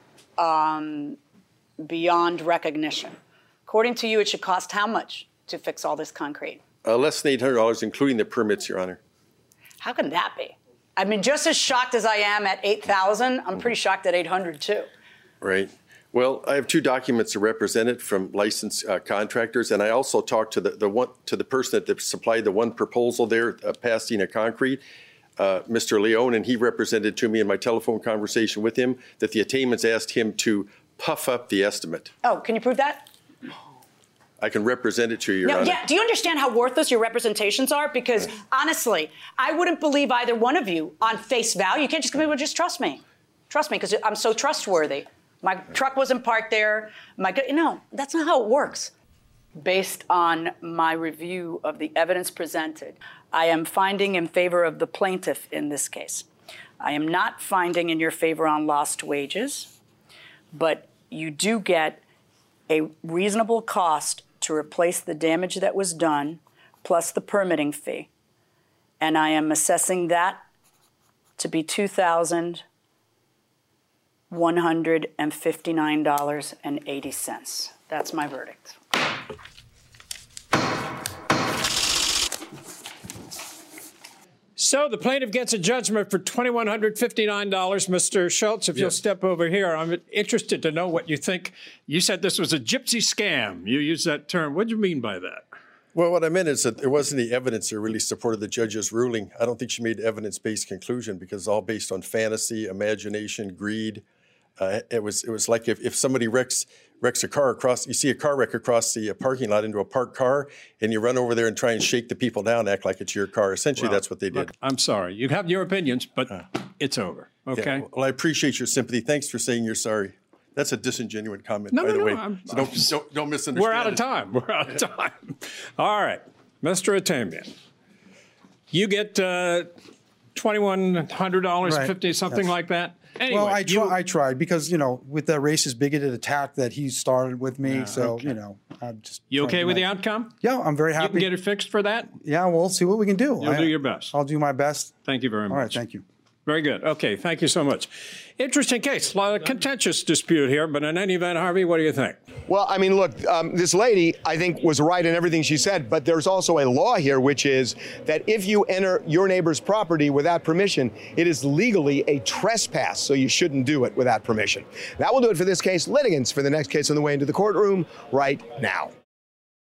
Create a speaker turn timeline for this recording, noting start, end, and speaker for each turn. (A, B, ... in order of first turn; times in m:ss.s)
0:00.4-0:01.2 A
0:01.8-0:06.6 A
0:06.8-0:09.0 B
0:09.8-0:14.9 A
0:15.4-0:24.8 B
0:25.4-0:32.1 B
0:32.2-0:33.1 A
0:34.4-0:35.8 B
0:35.4-0:48.9 A
0:49.6-0:56.3 A
0:56.8-0:59.7 A
1:00.5-1:02.0 A
1:02.7-1:08.1 A
1:09.0-1:10.4 A
1:11.4-1:12.6 A
1:14.3-1:18.8 A
1:24.6-1:35.5 C
1:35.9-1:44.0 B
1:44.6-1:54.5 B
1:53.8-1:57.9 C
1:57.5-2:04.0 B
2:01.7-2:02.9 C
2:03.5-2:07.5 C
2:08.7-2:09.7 C
2:10.4-2:14.0 C
2:11.6-2:12.5 D
2:13.3-2:19.9 D
2:17.7-2:18.4 C
2:19.3-2:20.3 C
2:20.4-2:21.3 D
2:21.0-2:22.2 C
2:22.2-2:25.0 D
2:23.4-2:24.1 C
2:25.0-2:25.8 C
2:25.5-2:26.0 D
2:26.5-2:32.2 C
2:32.5-2:48.9 E